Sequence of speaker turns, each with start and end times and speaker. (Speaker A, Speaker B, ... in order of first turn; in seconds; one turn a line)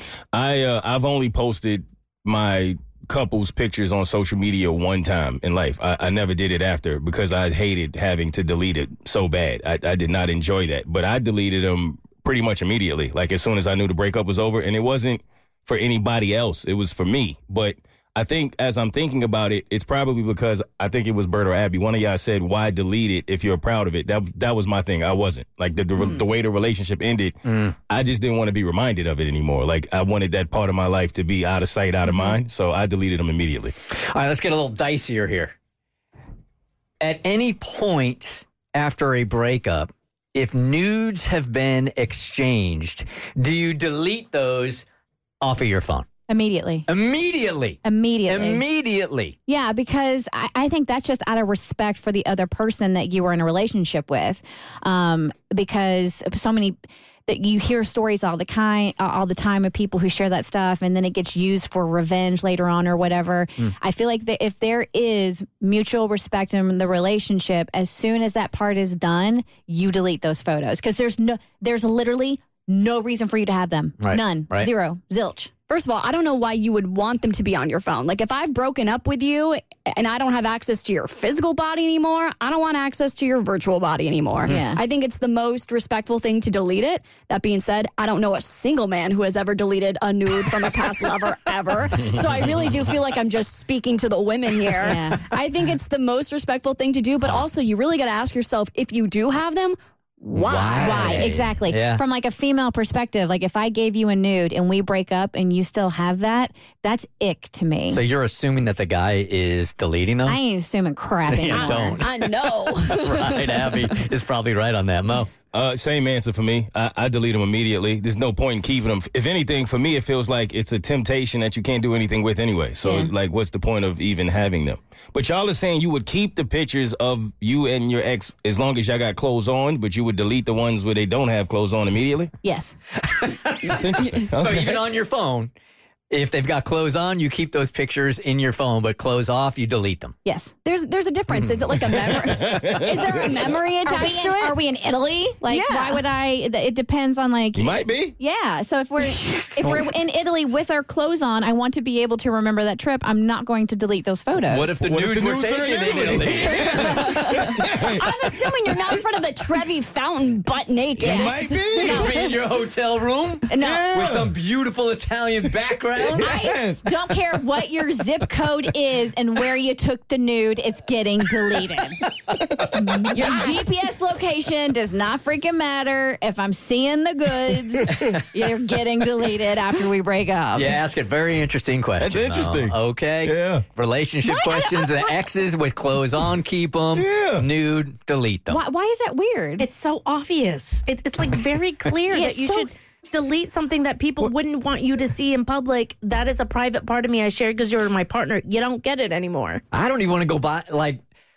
Speaker A: 0.3-27.4
Speaker A: 27.9-33.7
Speaker B: 32.1-32.3
Speaker C: 33.9-35.5
Speaker C: 37.0-44.9
Speaker C: 45.4-46.1
Speaker B: 46.3-46.9
Speaker C: 46.9-49.4
Speaker B: 47.8-48.6
Speaker B: 49.5-75.5
Speaker C: 74.0-74.7
Speaker D: 75.7-101.2
Speaker B: 84.4-84.8
Speaker B: 94.8-95.2
Speaker C: 100.3-102.0
Speaker B: 100.8-108.0
Speaker C: 107.9-110.4
Speaker B: 110.3-112.0
Speaker C: 111.3-112.4
Speaker D: 111.5-113.8
Speaker C: 113.0-115.3
Speaker A: 115.5-132.3
Speaker B: 122.8-123.1
Speaker B: 132.4-132.8
Speaker C: 133.0-135.5
Speaker A: 133.7-134.8
Speaker C: 136.1-140.2
Speaker B: 140.2-140.5
Speaker D: 140.7-144.6
Speaker C: 141.3-141.6
Speaker A: 141.9-143.1
Speaker B: 143.8-154.7
Speaker D: 145.4-146.0
Speaker A: 147.6-148.1
Speaker C: 149.6-149.9
Speaker C: 154.5-157.1
Speaker A: 154.8-158.1
Speaker D: 156.7-162.0
Speaker A: 161.0-162.0
Speaker B: 161.1-162.4
Speaker C: 161.8-166.4
Speaker B: 163.5-164.1
Speaker A: 163.6-164.3
Speaker A: 166.2-166.9
Speaker B: 166.2-172.0
Speaker B: 172.7-180.8
Speaker C: 180.6-188.6
Speaker A: 182.0-183.7
Speaker B: 184.3-185.2
Speaker A: 187.0-187.4
Speaker B: 188.5-189.7
Speaker E: 189.6-199.6
Speaker B: 192.1-192.7
Speaker C: 199.7-201.0